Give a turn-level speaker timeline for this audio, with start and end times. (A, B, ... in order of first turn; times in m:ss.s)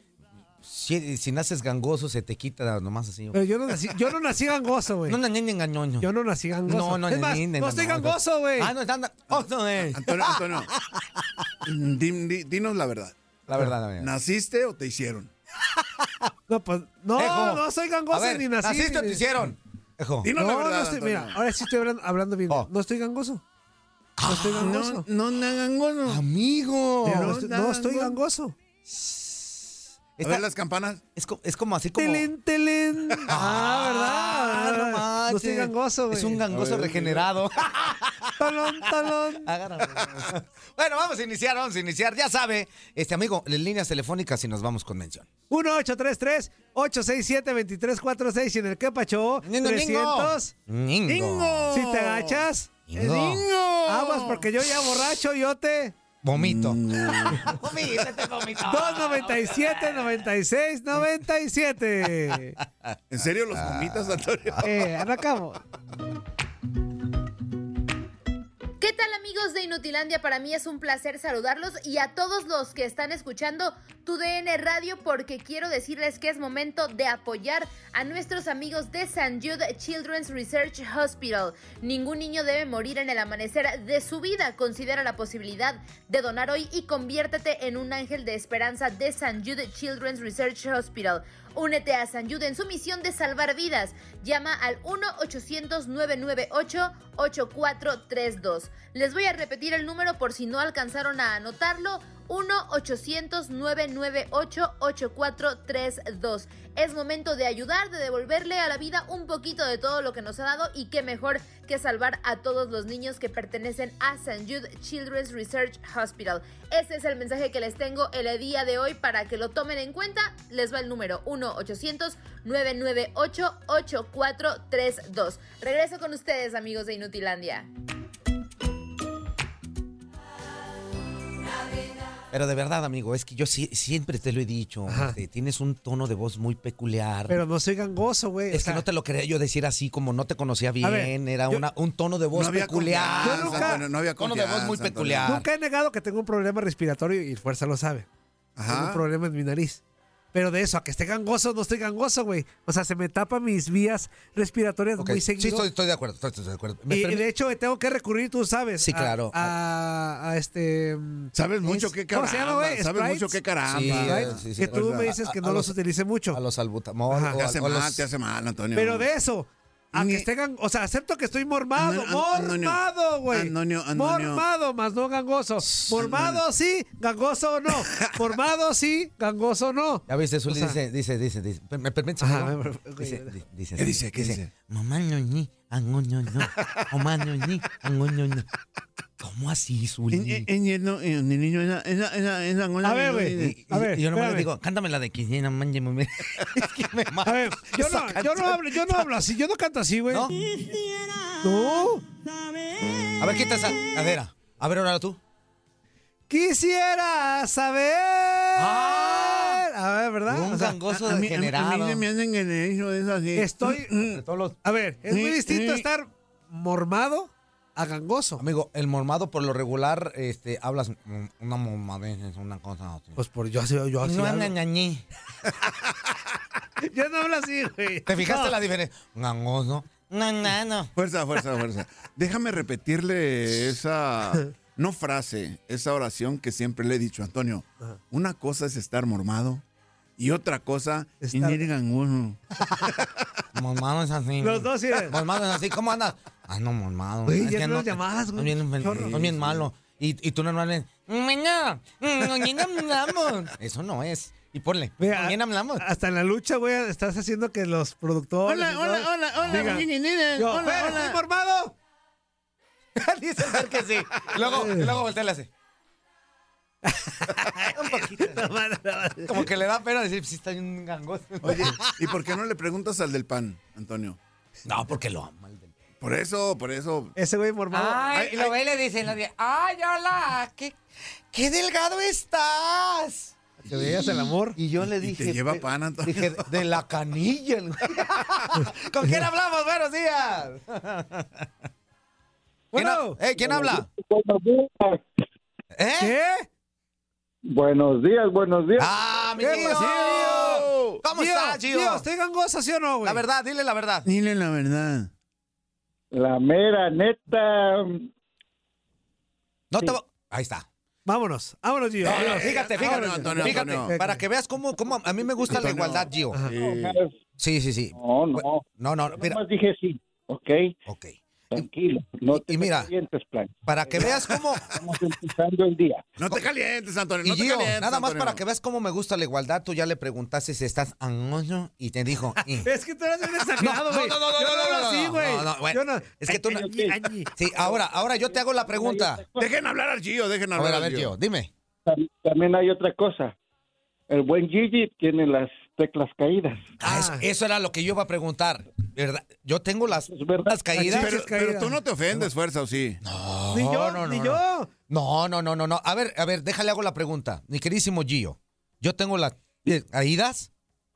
0:00.6-0:03.4 A
0:03.3-0:05.2 B
0:05.1-0:06.1 A
0:06.0-0:08.7 B
0:06.7-0:11.5 A
0:09.9-0:10.7 C
0:11.6-0:13.2 C
0:13.5-0:14.1 A
0:14.0-0:15.3 C
0:16.5-0:19.3 B
0:17.2-0:20.3 A
0:20.2-0:21.4 C
0:20.3-0:23.4 B
0:24.2-0:24.8 A
0:24.3-0:25.1 B
0:24.6-0:26.2 C
0:26.1-0:27.4 A
0:27.0-0:28.6 B
0:27.1-0:28.2 C
0:28.9-0:30.4 A
0:30.2-0:31.0 C
0:31.2-0:32.3 A
0:32.0-0:36.4 B
0:33.3-0:38.7 A
0:36.5-0:37.3 C
0:38.4-0:39.5 B
0:39.4-0:45.3 A
0:45.5-0:50.5 B
0:49.4-0:51.7 A
0:51.1-0:52.4 C
0:51.7-0:56.0 B
0:52.9-0:53.4 A
0:53.4-0:54.5 C
0:56.2-1:00.2 A
0:56.4-0:57.6 C
0:58.6-1:02.6 B
1:03.1-1:04.9 C
1:03.5-1:04.6 A
1:04.6-1:05.6 B
1:08.8-2:07.7 D
2:12.3-2:17.4 A
2:14.9-2:15.2 B
2:17.3-2:18.9 B
2:18.5-2:25.5 A
2:20.8-2:21.6 B
2:22.3-2:25.4 C
2:23.2-2:23.9 B
2:25.2-2:28.1 B
2:28.6-2:29.0 C
2:28.7-2:29.8 B
2:30.3-2:35.7 B
2:35.0-2:37.2 A
2:36.9-2:46.4 B
2:38.8-2:39.5 A
2:41.3-2:45.1 C
2:43.7-2:45.8 A
2:46.3-2:48.0 A
2:47.1-2:47.4 B
2:47.4-2:49.1 C
2:48.7-3:00.8 B
2:49.9-2:50.3 C
2:51.8-2:54.4 C
2:55.6-2:56.1 A
2:56.0-2:56.4 C
3:00.1-3:08.5 A
3:02.2-3:03.4 B
3:03.8-3:04.5 C
3:09.2-3:10.5 A
3:10.1-3:13.5 C
3:12.8-3:14.5 B
3:13.4-3:19.2 A
3:17.2-3:20.3 B
3:21.4-3:22.0 B
3:23.2-3:25.2 A
3:26.3-3:30.8 B
3:28.6-3:29.6 A
3:30.3-3:32.0 A
3:31.0-3:34.2 C
3:33.4-3:33.9 B
3:34.1-3:34.6 A
3:34.6-3:38.4 B
3:35.1-3:35.8 C
3:38.4-3:43.2 A
3:43.2-3:44.5 B
3:44.0-3:45.0 A
3:46.8-3:48.6 B
3:48.1-3:50.9 A
3:51.0-3:59.6 C
4:00.2-4:02.4 C
4:01.2-4:01.6 B
4:03.5-4:15.8 A
4:04.4-4:05.2 B
4:07.3-4:09.2 B
4:08.9-4:09.7 C
4:15.0-4:21.8 B
4:18.5-4:21.2 C
4:23.0-4:25.0 B
4:23.3-4:25.5 A
4:26.8-4:29.5 B
4:27.7-4:28.4 A
4:29.2-4:32.1 A
4:31.4-4:34.2 C
4:34.7-4:35.7 A
4:36.0-4:37.1 C
4:37.2-4:38.2 B
4:37.7-4:40.8 A
4:38.2-4:38.5 C
4:41.3-4:43.3 A
4:43.6-4:44.6 B
4:44.6-4:51.5 A
4:44.9-4:46.5 C
4:52.7-4:53.2 B
4:52.7-4:53.9 A
4:53.4-4:55.0 E
4:55.7-4:56.2 A
4:56.0-4:56.5 B
4:57.5-4:59.0 E
4:58.8-5:00.0 A
4:59.4-5:03.2 B
4:59.6-5:01.0 C
5:01.0-5:02.1 A
5:03.0-5:04.1 A
5:04.0-5:05.1 C
5:06.1-5:08.1 E
5:09.7-5:10.7 A
5:11.1-5:14.2 B
5:12.0-5:13.9 C
5:12.0-5:16.4 A
5:15.5-5:17.0 C
5:16.5-5:17.1 E
5:17.4-5:19.4 A
5:18.0-5:20.7 E
5:20.9-5:21.7 A
5:21.5-5:26.1 E
5:22.3-5:22.9 A
5:23.7-5:24.7 A
5:26.2-5:28.4 C
5:27.2-5:32.7 A
5:32.4-5:37.4 B
5:33.6-5:39.3 A
5:37.6-5:39.5 E
5:39.4-5:41.1 C
5:40.6-5:41.5 A
5:41.9-5:43.4 E
5:44.1-5:46.7 E
5:46.8-5:51.1 A
5:46.8-5:47.3 B
5:50.1-5:50.6 E
5:50.7-5:51.8 B
5:50.9-5:53.0 C
5:53.0-6:00.5 A
5:53.5-5:54.7 B